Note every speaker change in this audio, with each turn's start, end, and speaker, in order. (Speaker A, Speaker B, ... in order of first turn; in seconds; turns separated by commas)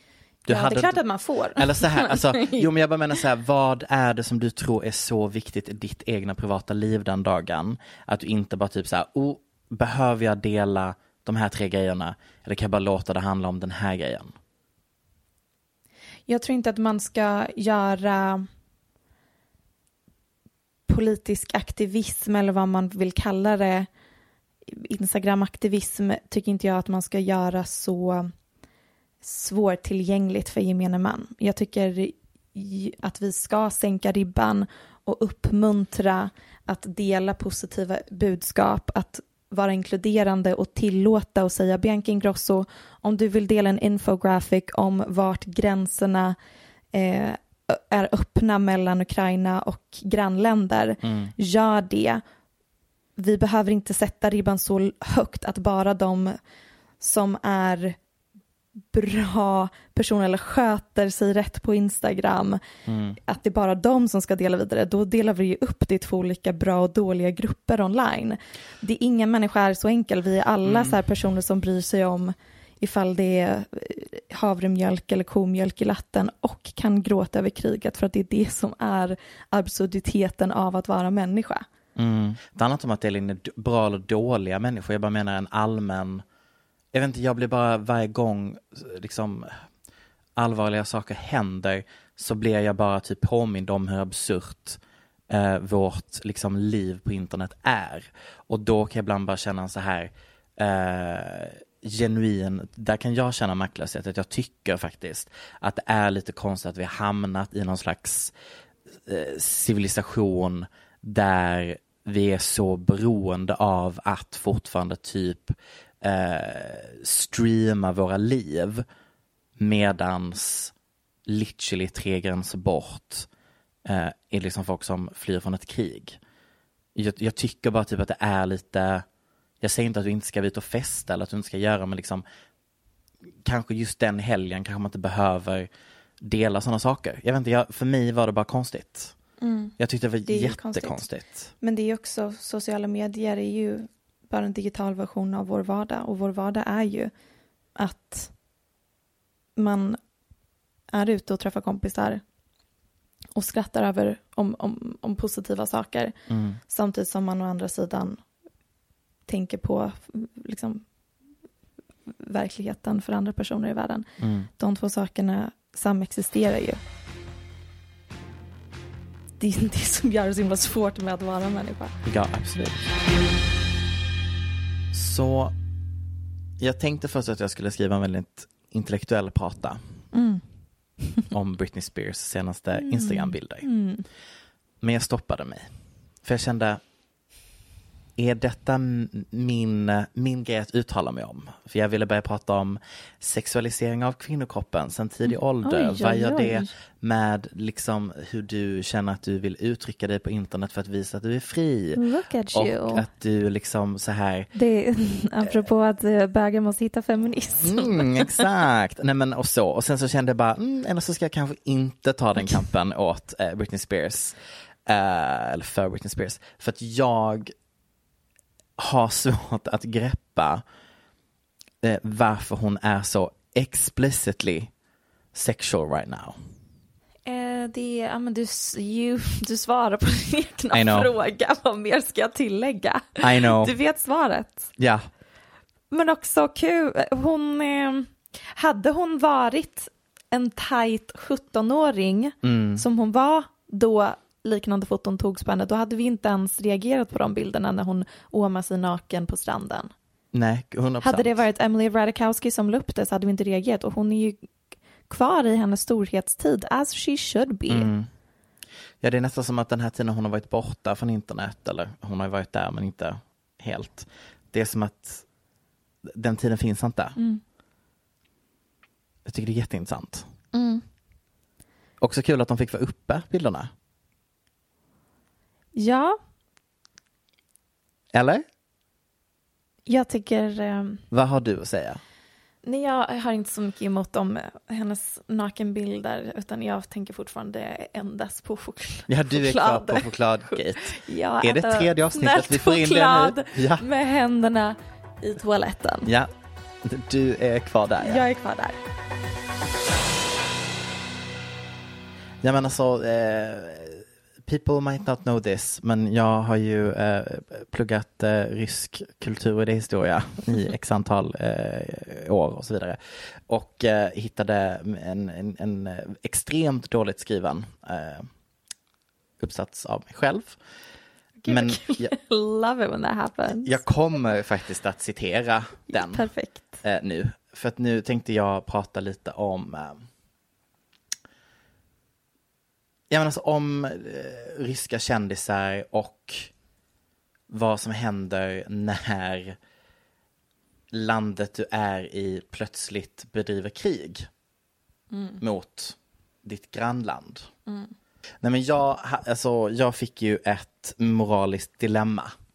Speaker A: 0.5-1.0, Speaker B: 0.5-2.7, Speaker A: 1.6-14.3, Speaker B: 16.3-18.5, Speaker B: 20.9-23.9, Speaker B: 24.7-28.3, Speaker B: 29.2-46.4, Speaker B: 46.9-52.2, Speaker A: 51.0-51.3, Speaker B: 53.2-56.4, Speaker B: 57.0-58.0, Speaker B: 58.9-62.6, Speaker A: 62.9-63.2, Speaker B: 63.3-81.7, Speaker A: 70.6-71.0, Speaker A: 82.0-86.2, Speaker A: 86.9-89.5, Speaker A: 90.4-108.3, Speaker A: 109.0-118.8, Speaker A: 119.6-120.7, Speaker A: 121.3-123.3, Speaker A: 123.8-126.2, Speaker A: 127.0-129.1, Speaker A: 129.6-132.2, Speaker A: 133.4-135.7, Speaker A: 136.2-139.2, Speaker B: 139.4-139.8, Speaker A: 139.8-141.5, Speaker B: 140.3-141.1, Speaker B: 141.6-147.1, Speaker B: 147.8-148.3, Speaker B: 149.6-150.0, Speaker B: 150.9-152.2, Speaker B: 153.3-156.1, Speaker A: 156.3-156.6, Speaker B: 156.7-158.2, Speaker B: 159.3-160.8, Speaker B: 162.2-164.1, Speaker A: 164.2-164.5, Speaker B: 164.6-166.8, Speaker B: 169.4-171.9, Speaker A: 172.1-172.9, Speaker A: 174.9-175.5, Speaker A: 176.6-180.0, Speaker B: 180.1-180.4, Speaker A: 181.3-183.7, Speaker B: 182.8-184.1, Speaker A: 184.8-185.7, Speaker A: 186.2-186.8, Speaker A: 188.2-202.0, Speaker B: 195.6-196.7, Speaker B: 202.0-203.1, Speaker A: 202.5-204.5, Speaker B: 204.6-208.5, Speaker A: 207.6-217.5, Speaker A: 218.8-220.6, Speaker A: 221.8-224.7, Speaker A: 225.3-226.4, Speaker B: 227.3-234.7, Speaker A: 230.7-231.1, Speaker A: 233.2-233.7, Speaker A: 234.8-235.1, Speaker B: 235.9-249.9, Speaker A: 242.4-242.8, Speaker A: 250.3-251.3, Speaker B: 251.0-254.5, Speaker B: 255.1-257.9, Speaker A: 257.7-258.1, Speaker A: 259.0-265.3, Speaker A: 266.1-267.2, Speaker A: 269.3-270.3, Speaker B: 270.5-270.8, Speaker A: 272.0-273.7, Speaker B: 275.8-276.2, Speaker A: 278.1-278.5, Speaker B: 279.9-281.0, Speaker A: 281.1-282.0, Speaker B: 282.6-296.1, Speaker A: 289.1-293.8, Speaker A: 296.1-296.3, Speaker A: 296.8-298.2, Speaker B: 298.0-298.8, Speaker A: 302.4-318.3, Speaker A: 319.4-320.6, Speaker B: 321.4-323.8, Speaker A: 321.5-322.1, Speaker A: 323.6-326.3, Speaker B: 325.9-326.8, Speaker A: 326.8-330.1, Speaker A: 333.1-336.5, Speaker A: 337.5-339.6, Speaker A: 340.9-344.3, Speaker B: 345.1-345.4, Speaker A: 345.4-347.5, Speaker B: 347.7-347.9, Speaker A: 348.4-352.3